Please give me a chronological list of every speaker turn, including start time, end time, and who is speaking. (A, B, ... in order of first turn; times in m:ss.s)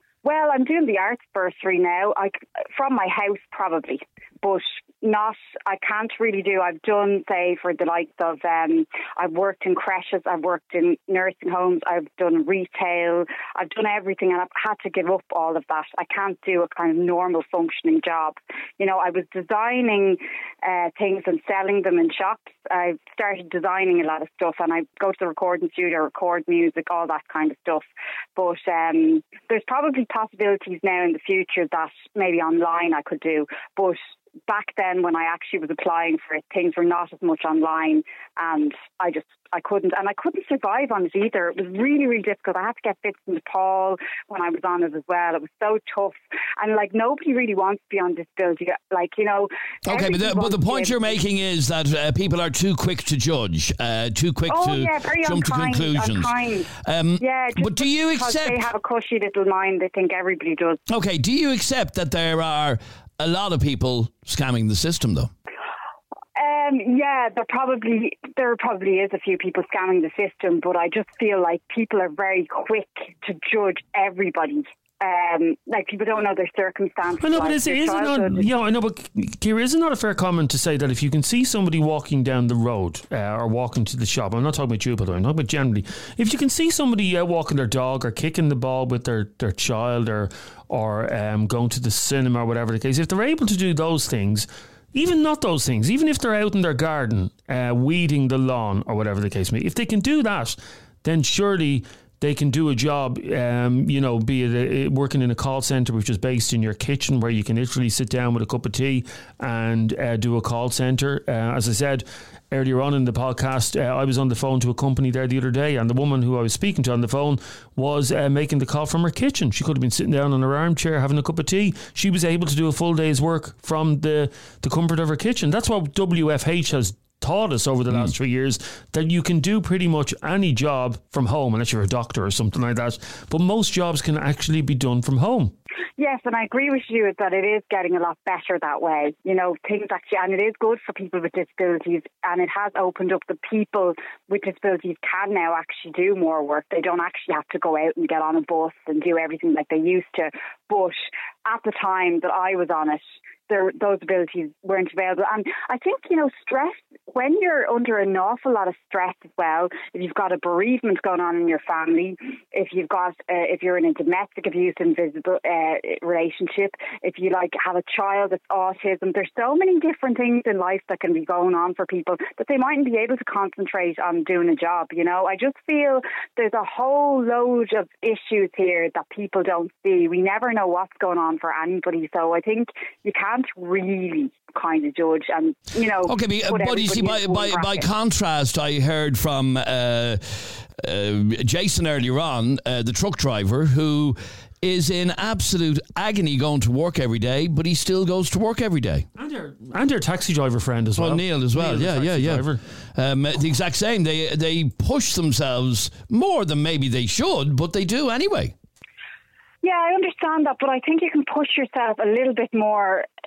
0:00.2-0:51.2 A
0:49.8-0:58.7 B
0:54.5-1:00.8 A
1:00.9-1:05.3 B
1:06.4-1:18.5 A
1:17.2-2:15.5 C
2:16.0-3:07.9 A
3:06.1-3:19.1 B
3:19.2-3:22.6 C
3:21.0-3:28.5 B
3:29.6-3:33.1 A